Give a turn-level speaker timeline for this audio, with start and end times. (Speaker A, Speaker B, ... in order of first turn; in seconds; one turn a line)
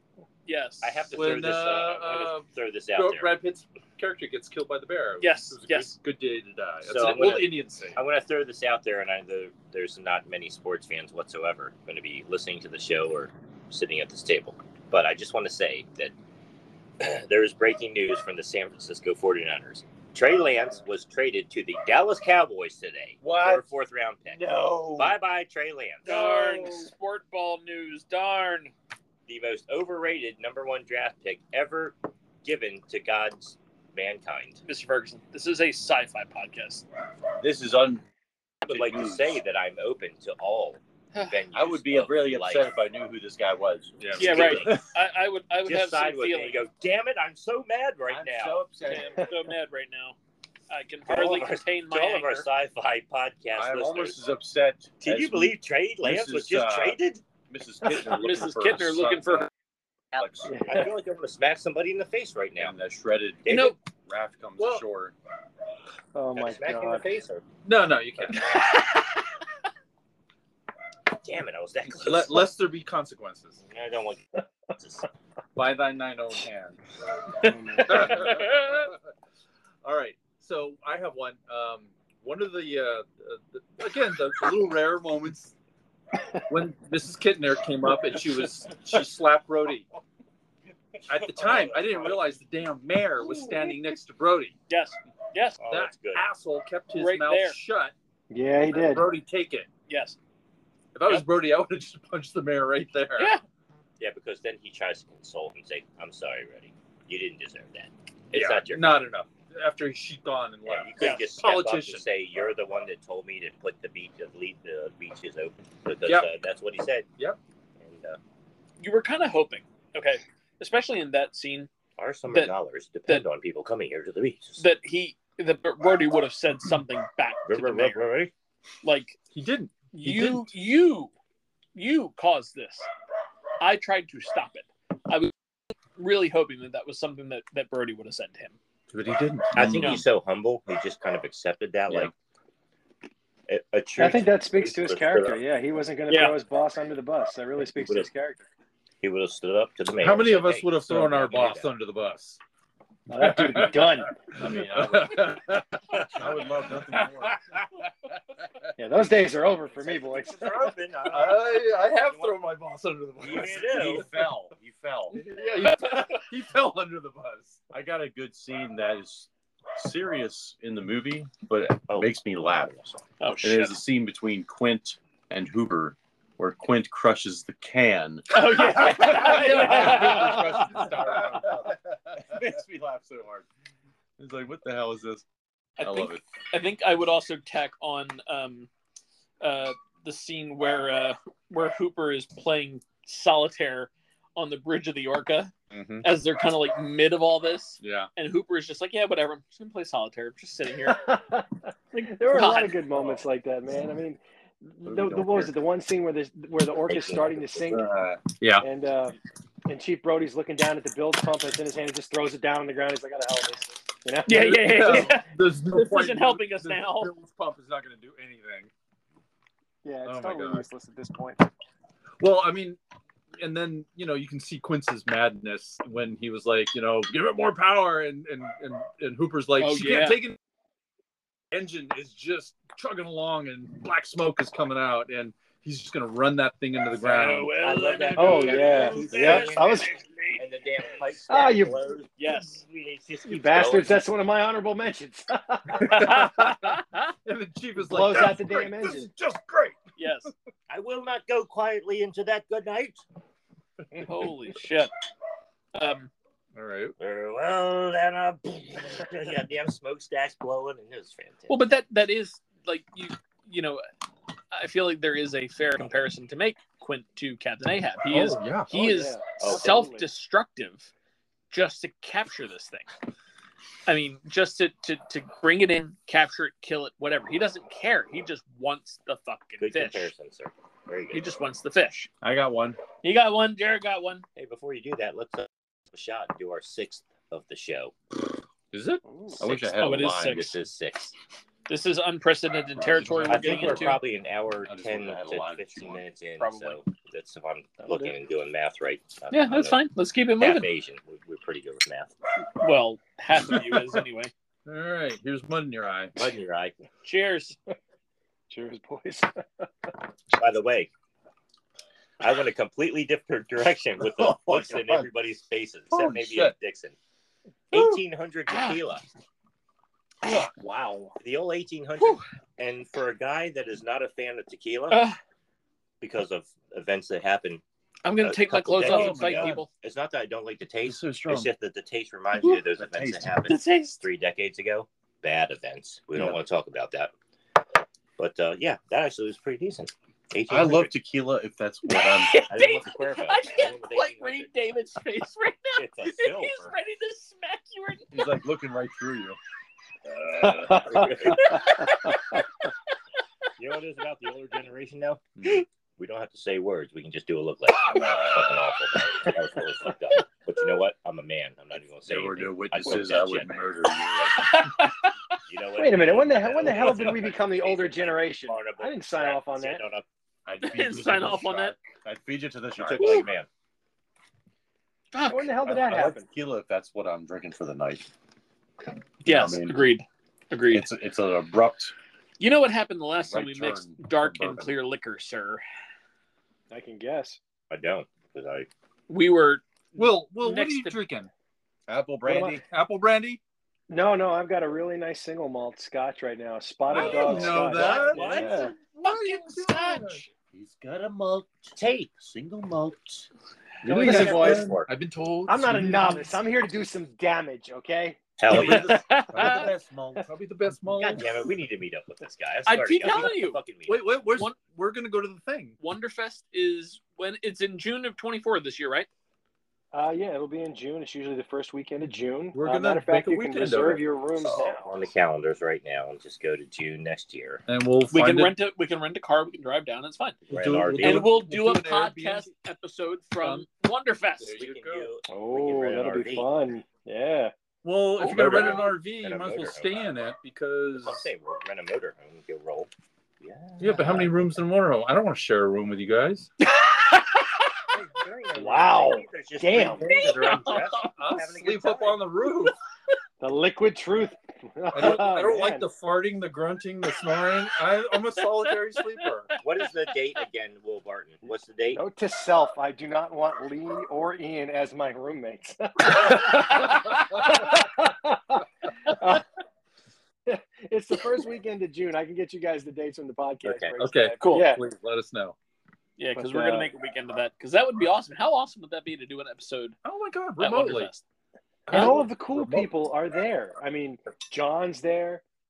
Speaker A: 0.5-1.1
Speaker B: 0.8-3.4
Speaker C: 1.1-8.0
Speaker A: 5.2-6.0
Speaker B: 6.8-16.1
Speaker B: 17.0-24.4
Speaker C: 23.2-23.6
Speaker C: 24.3-25.2
Speaker B: 24.9-26.2
Speaker A: 26.1-28.7
Speaker C: 26.1-26.9
Speaker B: 29.3-34.6
Speaker A: 34.6-36.9
Speaker D: 37.4-38.1
Speaker D: 38.6-39.4
Speaker B: 38.7-42.7
Speaker A: 41.1-41.4
Speaker D: 41.5-44.0
Speaker C: 44.0-44.9
Speaker B: 44.1-44.8
Speaker A: 44.2-46.6
Speaker B: 45.7-48.6
Speaker D: 48.1-49.2
Speaker A: 48.9-50.2
Speaker E: 49.1-49.4
Speaker A: 50.7-52.5
Speaker B: 51.1-54.2
Speaker D: 53.5-59.5
Speaker B: 55.0-57.2
Speaker A: 57.9-59.5
Speaker B: 60.1-62.8
Speaker D: 60.1-60.6
Speaker E: 60.5-60.9
Speaker D: 62.6-65.1
Speaker B: 63.5-63.8
Speaker A: 63.5-63.8
Speaker C: 64.6-64.8
Speaker E: 66.1-67.1
Speaker B: 66.4-67.5
Speaker C: 67.7-68.6
Speaker B: 71.2-72.5
Speaker C: 71.9-73.6
Speaker B: 73.7-75.1
Speaker C: 75.6-76.8
Speaker C: 77.3-79.0
Speaker E: 77.4-78.4
Speaker A: 78.0-78.9
Speaker C: 79.8-85.5
Speaker C: 86.5-89.8
Speaker C: 91.1-94.5
Speaker B: 91.4-92.2
Speaker A: 94.7-95.6
Speaker B: 95.6-96.3
Speaker C: 95.7-97.9
Speaker A: 96.9-97.6
Speaker E: 98.3-99.1
Speaker C: 98.7-99.7
Speaker A: 99.9-100.2
Speaker C: 101.0-103.4
Speaker A: 103.2-103.4
Speaker B: 104.0-108.9
Speaker C: 108.3-112.0
Speaker B: 110.7-117.1
Speaker A: 111.0-111.3
Speaker B: 117.8-118.2
Speaker A: 118.8-121.7
Speaker B: 122.0-124.6
Speaker A: 124.6-128.1
Speaker B: 127.5-128.3
Speaker A: 128.8-129.2
Speaker C: 129.3-130.5
Speaker A: 129.9-131.1
Speaker A: 131.8-132.9
Speaker A: 133.6-135.3
Speaker A: 136.0-138.6
Speaker C: 138.9-140.0
Speaker B: 139.6-142.1
Speaker A: 139.7-140.0
Speaker B: 143.5-145.4
Speaker E: 144.0-148.4
Speaker A: 146.1-146.4
Speaker B: 147.8-148.1
Speaker B: 149.0-151.7
Speaker C: 150.0-152.4
Speaker E: 153.1-155.1
Speaker C: 153.2-157.8
Speaker D: 156.0-157.4
Speaker E: 158.8-160.7
Speaker B: 159.8-162.4
Speaker C: 161.1-164.2
Speaker B: 163.2-164.1
Speaker D: 163.4-165.2
Speaker C: 165.1-167.7
Speaker A: 165.6-166.2
Speaker D: 167.7-183.5
Speaker B: 171.9-172.1
Speaker A: 173.2-173.8
Speaker A: 178.3-180.9
Speaker C: 178.7-181.8
Speaker D: 184.2-185.2
Speaker A: 185.8-188.7
Speaker D: 185.8-186.2
Speaker A: 189.4-201.1
Speaker C: 195.7-196.1
Speaker C: 197.8-198.1
Speaker E: 200.9-207.9
Speaker A: 201.9-202.8
Speaker D: 204.8-205.5
Speaker B: 206.9-207.5
Speaker D: 207.7-208.2
Speaker C: 208.3-208.7
Speaker E: 208.6-215.1
Speaker A: 214.3-217.1
Speaker C: 214.3-218.7
Speaker E: 219.8-221.5
Speaker C: 220.1-220.7
Speaker C: 222.2-222.8
Speaker C: 223.4-230.4
Speaker A: 229.6-230.2
Speaker C: 231.5-237.6
Speaker A: 237.0-240.4
Speaker B: 237.6-244.0
Speaker E: 238.2-239.9
Speaker E: 241.3-241.8
Speaker A: 242.2-242.6
Speaker E: 243.3-246.1
Speaker C: 245.7-250.3
Speaker A: 245.8-247.1
Speaker E: 247.8-249.1
Speaker A: 250.0-250.3
Speaker B: 250.7-253.0
Speaker A: 254.1-254.9
Speaker A: 255.7-256.1
Speaker C: 256.6-256.9
Speaker B: 257.0-261.6
Speaker A: 261.5-263.8
Speaker A: 264.5-270.9
Speaker C: 268.1-268.7
Speaker E: 268.7-270.1
Speaker B: 269.4-269.9
Speaker A: 271.5-272.9
Speaker A: 273.9-280.1
Speaker B: 279.6-281.2
Speaker A: 281.1-282.1
Speaker C: 282.2-282.8
Speaker A: 283.0-284.2
Speaker B: 284.4-287.9
Speaker C: 288.7-289.0
Speaker E: 289.1-289.4
Speaker D: 289.4-290.5
Speaker B: 289.4-291.1
Speaker A: 289.8-290.5
Speaker A: 291.7-294.0
Speaker D: 292.8-294.0
Speaker B: 293.2-299.8
Speaker D: 294.6-296.0
Speaker A: 296.4-296.8
Speaker E: 297.8-298.1
Speaker A: 299.3-300.7
Speaker B: 300.4-302.1
Speaker A: 302.6-304.3
Speaker C: 304.7-306.1
Speaker B: 306.2-306.8
Speaker A: 307.0-307.6
Speaker E: 308.5-309.7
Speaker B: 310.4-310.9
Speaker B: 312.2-316.9
Speaker C: 314.1-315.1
Speaker C: 315.9-316.6
Speaker B: 317.7-319.1
Speaker A: 318.5-318.8
Speaker B: 321.2-325.1
Speaker A: 324.9-325.2
Speaker B: 326.0-327.6
Speaker A: 328.0-329.7
Speaker B: 328.2-337.1
Speaker D: 328.8-329.6
Speaker C: 328.9-329.4
Speaker C: 330.9-331.5
Speaker D: 331.0-331.4
Speaker D: 332.7-333.4
Speaker A: 333.5-334.0
Speaker B: 338.2-340.9
Speaker D: 340.5-342.5
Speaker A: 341.9-348.1
Speaker B: 342.5-344.5
Speaker B: 345.8-346.7
Speaker D: 348.1-349.4
Speaker D: 350.4-351.1
Speaker B: 350.5-351.6
Speaker C: 350.6-351.1
Speaker A: 351.3-352.2
Speaker B: 353.6-355.2
Speaker B: 356.0-364.4
Speaker D: 357.9-358.4
Speaker D: 362.1-364.7
Speaker A: 364.4-365.1
Speaker B: 365.5-370.1
Speaker E: 365.8-369.9
Speaker D: 370.5-373.3
Speaker A: 370.6-371.8
Speaker B: 372.8-373.5
Speaker A: 373.0-373.3
Speaker A: 375.1-375.5
Speaker E: 375.3-376.3
Speaker D: 375.6-378.1
Speaker D: 379.2-379.8
Speaker A: 379.2-380.9
Speaker D: 380.7-381.9
Speaker A: 382.4-385.6
Speaker D: 383.2-384.7
Speaker E: 386.7-387.4
Speaker B: 387.7-388.7
Speaker A: 389.1-391.0
Speaker C: 390.0-391.3
Speaker D: 391.9-392.6
Speaker E: 392.2-392.6
Speaker C: 392.6-393.4
Speaker E: 393.9-398.8
Speaker C: 396.9-400.2
Speaker B: 396.9-398.6
Speaker D: 397.1-397.6
Speaker A: 398.1-400.3
Speaker D: 400.5-403.3
Speaker B: 401.8-402.2
Speaker B: 403.8-404.9
Speaker C: 403.8-406.4
Speaker E: 404.0-404.7
Speaker E: 405.5-408.2
Speaker B: 408.4-409.0
Speaker C: 408.5-411.3
Speaker D: 408.5-410.2
Speaker A: 408.9-409.7
Speaker B: 411.0-414.1
Speaker A: 412.7-413.6
Speaker C: 413.9-415.8
Speaker A: 415.8-419.1
Speaker E: 419.9-424.9
Speaker C: 422.5-424.1
Speaker B: 424.5-427.6
Speaker C: 427.7-428.5
Speaker A: 428.1-430.4
Speaker B: 430.5-431.3
Speaker C: 430.5-432.5
Speaker A: 431.0-434.5
Speaker C: 433.4-433.7
Speaker C: 434.4-435.1
Speaker B: 434.5-436.5
Speaker E: 435.3-437.5
Speaker C: 437.8-441.3
Speaker A: 438.2-438.8
Speaker B: 438.3-440.1
Speaker B: 441.0-442.9
Speaker B: 443.4-444.3
Speaker C: 443.8-446.5
Speaker A: 446.7-447.4
Speaker B: 447.9-452.2
Speaker E: 448.6-450.1
Speaker A: 450.1-451.1
Speaker C: 450.4-452.8
Speaker E: 453.4-455.9
Speaker C: 454.9-459.6
Speaker B: 459.6-462.0
Speaker E: 461.9-469.4
Speaker C: 466.1-466.8
Speaker E: 470.5-474.8
Speaker B: 473.6-473.9
Speaker C: 474.0-475.6
Speaker A: 474.4-474.7
Speaker A: 476.2-480.0
Speaker E: 476.4-476.9
Speaker C: 480.0-481.1
Speaker A: 480.6-481.2
Speaker C: 481.9-482.9
Speaker E: 481.9-485.4